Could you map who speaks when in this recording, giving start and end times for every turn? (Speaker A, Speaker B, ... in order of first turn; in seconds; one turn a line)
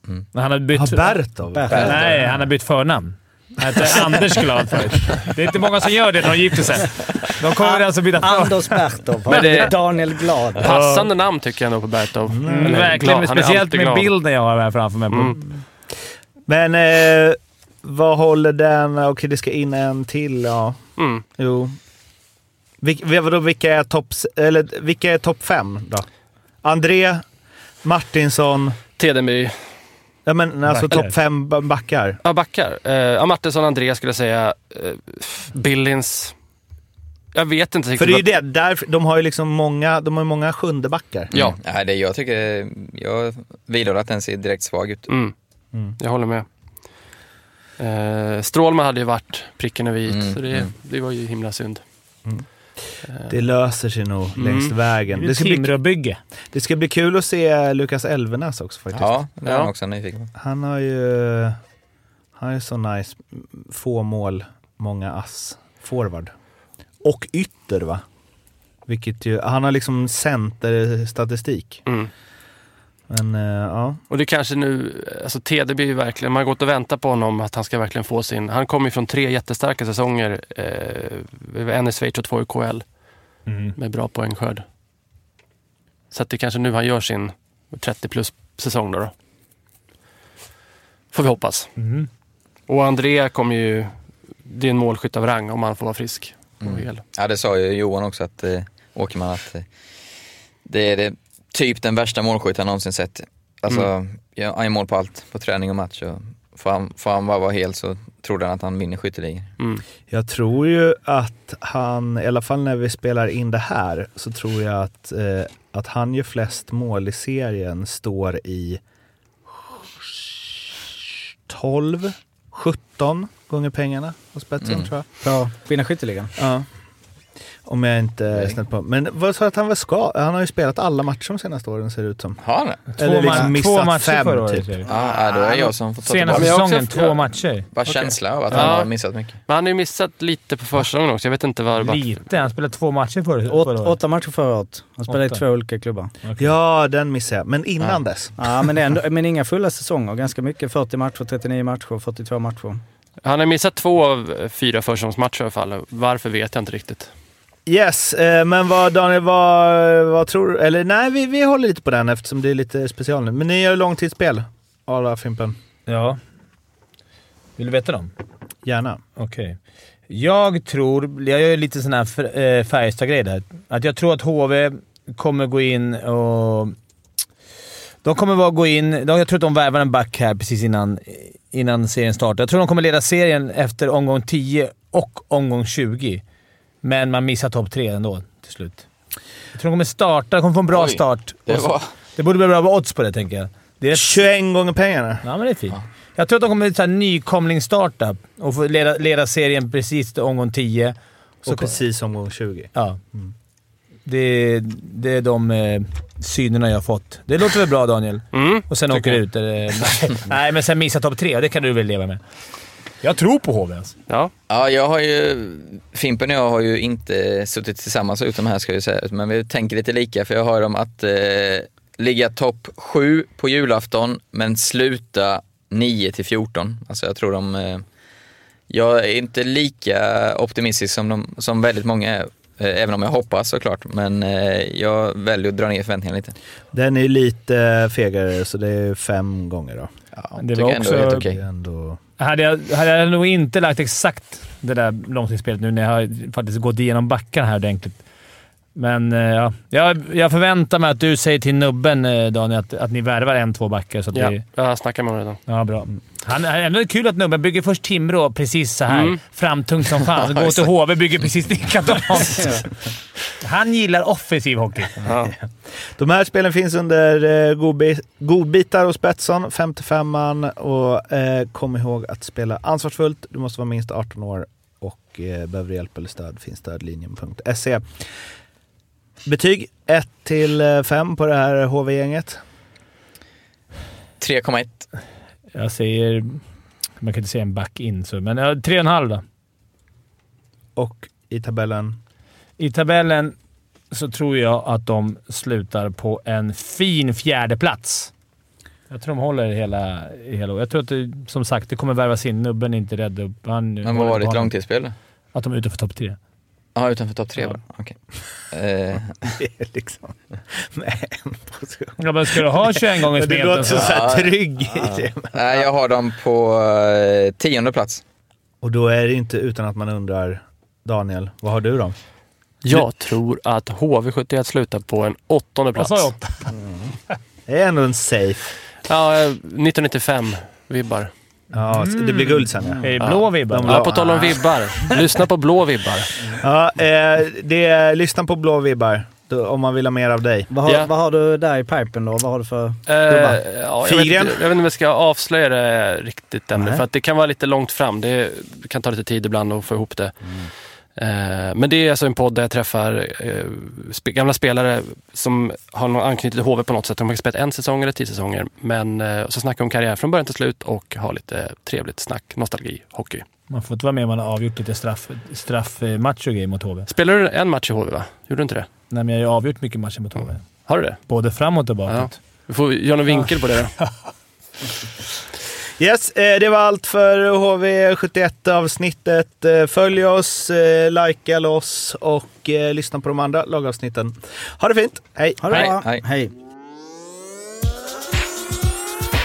Speaker A: 0.3-1.2
Speaker B: 0.8-2.3
Speaker C: 1.5-2.2
Speaker D: 1.7-2.0
Speaker A: 1.8-9.7
Speaker C: 7.6-10.7
Speaker E: 9.3-9.7
Speaker E: 10.6-14.1
Speaker A: 10.6-11.1
Speaker B: 12.3-13.1
Speaker A: 12.4-15.4
Speaker E: 15.1-15.4
Speaker B: 16.5-20.8
Speaker E: 21.0-21.2
Speaker B: 21.4-21.8
Speaker B: 22.8-26.1
Speaker B: 26.6-27.2
Speaker B: 27.8-28.8
Speaker E: 29.0-29.5
Speaker B: 30.3-32.2
Speaker A: 30.7-31.1
Speaker E: 32.2-36.4
Speaker E: 37.3-38.3
Speaker B: 38.0-41.3
Speaker D: 41.3-45.1
Speaker E: 46.0-46.5
Speaker E: 47.8-51.8
Speaker D: 50.1-50.7
Speaker E: 53.1-53.4
Speaker B: 53.3-55.7
Speaker E: 54.4-54.7
Speaker A: 55.1-56.2
Speaker B: 56.5-59.2
Speaker D: 58.9-60.3
Speaker E: 59.4-59.7
Speaker B: 60.4-61.6
Speaker B: 62.4-66.3
Speaker B: 67.0-68.0
Speaker B: 68.9-71.8
Speaker E: 71.9-72.1
Speaker B: 73.1-74.0
Speaker E: 74.1-82.8
Speaker A: 83.5-83.8
Speaker E: 83.8-84.6
Speaker E: 86.1-89.1
Speaker E: 91.1-91.7
Speaker A: 91.8-92.1
Speaker E: 92.7-93.9
Speaker E: 94.5-97.0
Speaker D: 96.6-99.7
Speaker D: 100.7-109.5
Speaker B: 110.1-118.8
Speaker B: 121.5-125.0
Speaker D: 124.6-124.9
Speaker C: 125.2-126.3
Speaker B: 126.4-126.7
Speaker B: 127.7-132.4
Speaker D: 132.4-133.0
Speaker B: 132.9-134.8
Speaker A: 133.0-134.9
Speaker D: 134.8-136.6
Speaker A: 136.0-137.7
Speaker E: 136.3-137.2
Speaker D: 137.7-139.4
Speaker E: 137.9-139.0
Speaker E: 139.5-142.1
Speaker A: 141.8-144.0
Speaker C: 143.5-146.1
Speaker A: 145.1-145.4
Speaker A: 146.2-146.5
Speaker B: 146.4-148.5
Speaker C: 148.4-152.8
Speaker E: 153.2-157.1
Speaker B: 157.7-165.6
Speaker A: 165.9-166.2
Speaker A: 167.6-168.1
Speaker B: 168.7-169.0
Speaker A: 169.2-169.6
Speaker A: 170.1-176.8
Speaker A: 178.0-186.2
Speaker A: 186.8-188.8
Speaker A: 189.5-194.2
Speaker D: 190.7-191.9
Speaker B: 193.9-195.2
Speaker A: 195.2-200.9
Speaker B: 201.5-203.3
Speaker A: 201.5-201.8
Speaker A: 202.7-203.0
Speaker A: 204.1-212.2
Speaker E: 208.3-209.2
Speaker A: 213.0-213.9
Speaker D: 214.5-227.8
Speaker D: 228.7-236.3
Speaker B: 236.7-239.9
Speaker D: 240.2-241.4
Speaker A: 240.4-241.3
Speaker B: 241.1-242.0
Speaker A: 242.2-248.0
Speaker A: 248.8-254.4
Speaker E: 254.1-255.4
Speaker A: 255.5-262.7
Speaker E: 258.9-259.2
Speaker D: 260.2-260.7
Speaker A: 263.4-265.0
Speaker E: 265.0-265.4
Speaker B: 266.0-277.8
Speaker B: 279.3-282.4
Speaker D: 284.2-284.9
Speaker A: 285.5-286.4
Speaker A: 287.0-289.2
Speaker B: 290.8-292.0
Speaker A: 292.6-293.4
Speaker A: 293.9-298.1
Speaker A: 298.9-304.6
Speaker D: 303.8-304.9
Speaker A: 305.3-306.2
Speaker D: 306.8-308.0
Speaker D: 308.5-309.2
Speaker B: 309.2-310.2
Speaker B: 310.8-315.7
Speaker A: 312.0-314.0
Speaker D: 313.8-318.0
Speaker B: 318.6-322.0
Speaker E: 322.6-326.1
Speaker A: 325.8-326.6
Speaker B: 327.5-328.5
Speaker E: 328.9-331.1
Speaker B: 331.6-334.4
Speaker A: 331.7-333.8
Speaker E: 333.6-336.1
Speaker B: 336.4-340.5
Speaker C: 340.5-343.4
Speaker E: 340.6-340.9
Speaker E: 342.9-350.1
Speaker B: 343.8-344.4
Speaker C: 346.5-346.8
Speaker E: 351.0-363.2
Speaker A: 363.5-366.9
Speaker E: 366.9-368.7
Speaker A: 368.9-370.4
Speaker E: 370.7-371.0
Speaker A: 371.1-372.2
Speaker E: 371.9-373.7
Speaker B: 375.8-385.7
Speaker C: 385.4-386.3
Speaker D: 385.5-386.0